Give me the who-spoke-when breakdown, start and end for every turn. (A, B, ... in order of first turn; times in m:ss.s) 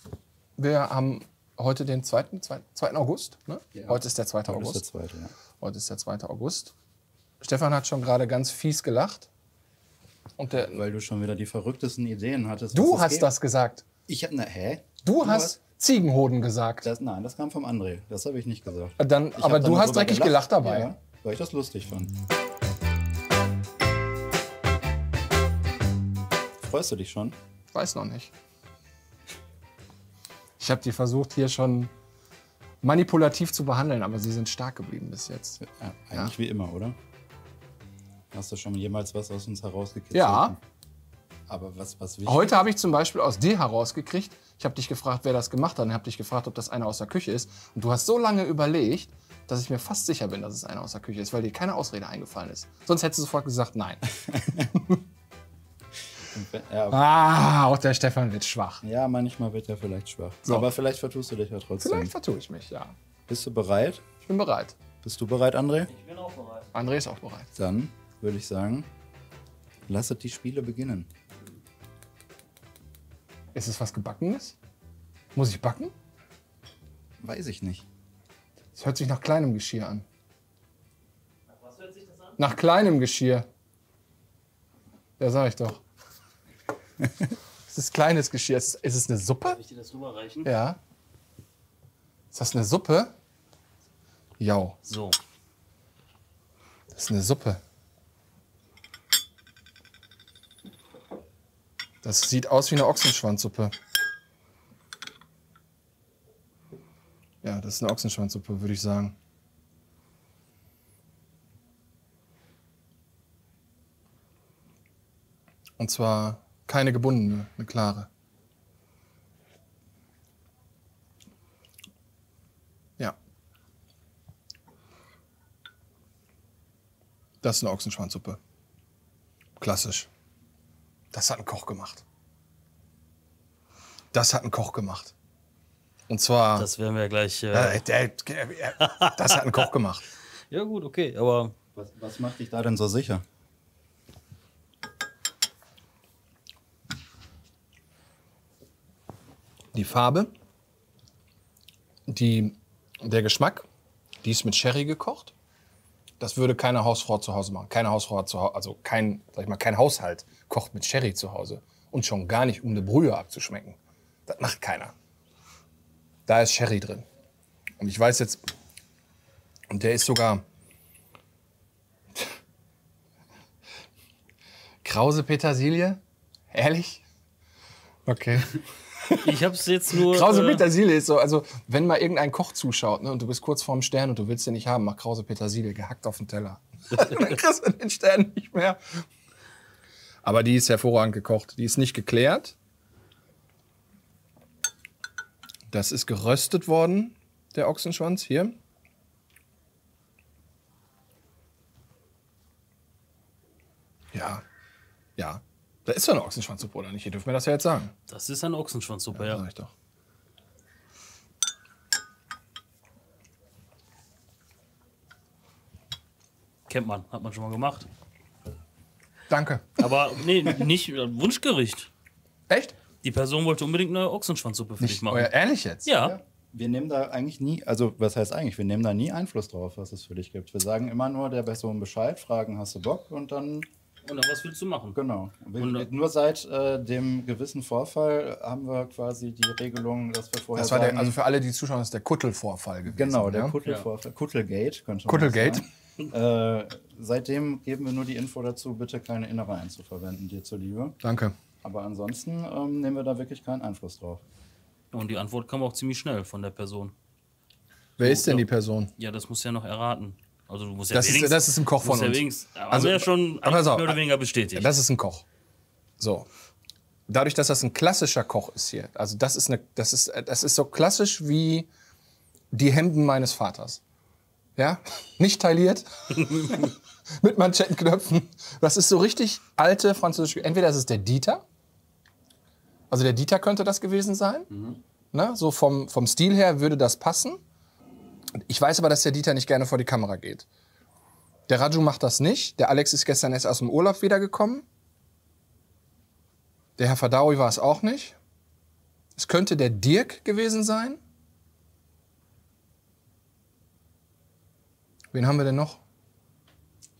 0:00.6-0:04.8 A
0:03.7-0:05.3 B
0:05.6-0:06.7 A
0:07.4-0:09.3 A
0:10.4-0:10.8 A
0:10.7-0:13.3 B
0:12.7-0:13.8 A
0:14.1-0:15.5 B
0:15.0-0:16.9 A
0:16.8-0:22.1 B
0:19.0-0:20.9 A
0:26.6-0:27.4 B
0:27.7-0:28.3 A
0:30.6-0:31.9 A
0:32.8-0:35.6 A
0:35.6-0:37.0 B
0:38.3-0:40.6 B
0:40.1-0:40.5 A
0:41.5-0:42.5 B
0:42.2-0:55.0 A
0:56.3-0:57.0 B
0:56.9-0:58.8 A
0:58.8-1:02.1 B
1:00.4-1:00.7 A
1:01.8-1:02.9 A
1:03.3-1:04.0 B
1:04.2-1:04.7 A
1:05.0-1:05.9 B
1:05.9-1:06.7 C
1:06.7-1:07.5 A
1:07.5-1:08.9 B
1:09.9-1:11.1 B
1:13.5-1:14.6 A
1:15.3-1:15.9 A
1:17.2-1:17.8 B
1:18.7-1:20.0 A
1:21.6-1:22.4 C
1:22.4-1:23.5 A
1:25.2-1:25.8 A
1:27.7-1:29.6 A
1:29.4-1:30.5 C
1:30.4-1:30.8 A
1:32.3-1:33.1 A
1:34.4-1:34.8 A
1:34.8-1:35.2 C
1:36.9-1:37.6 A
1:42.0-1:43.7 A
1:47.4-1:49.2 A
1:55.8-1:58.1 A
2:07.4-2:08.4 A
2:09.6-2:10.1 A
2:11.1-2:12.0 A
2:14.1-2:15.1 A
2:16.1-2:16.7 A
2:16.6-2:17.8 C
2:17.5-2:20.0 A
2:18.8-2:19.5 C
2:20.5-2:21.5 C
2:21.7-2:23.2 B
2:29.7-2:30.3 A
2:32.1-2:33.6 A
2:34.2-2:35.3 A
2:36.2-2:44.9 A
2:46.3-2:47.0 A
2:47.8-2:48.4 A
2:49.7-2:50.4 A
2:54.8-2:56.0 A
2:56.5-2:57.0 A
2:58.0-2:58.5 A
2:59.0-2:59.3 A
2:59.2-3:00.6 C
3:00.0-3:09.0 A
3:06.9-3:07.3 C
3:10.2-3:12.6 A
3:15.7-3:18.5 A
3:24.1-3:24.4 A
3:25.2-3:27.9 A
3:28.1-3:29.4 C
3:29.1-3:29.7 A
3:36.7-3:37.9 C
3:39.3-3:39.8 A
3:39.8-3:41.9 C
3:42.5-3:42.8 A
3:43.0-3:45.3 C
3:44.8-3:45.9 A
3:45.8-3:46.2 C
3:46.0-3:53.7 B
3:54.0-3:55.0 C
3:54.9-4:01.2 B
3:55.6-3:55.9 C
4:00.6-4:03.6 A
4:02.9-4:11.0 B
4:05.1-4:05.6 A
4:11.0-4:11.3 A
4:11.6-4:14.2 B
4:14.9-4:16.9 C
4:18.0-4:18.5 C
4:18.0-4:18.9 A
4:19.0-4:24.7 C
4:20.9-4:24.0 A
4:24.5-4:25.2 A
4:26.0-4:26.3 A
4:27.1-4:31.7 A
4:32.5-4:33.8 A
4:34.6-4:41.4 A
4:36.2-4:36.7 C
4:42.9-4:44.5 A
4:44.5-4:44.8 B
4:45.1-4:47.4 A
4:48.4-4:50.4 A
4:51.5-4:54.6 A
4:56.8-4:58.2 A
4:59.2-5:01.0 A
5:05.1-5:05.8 A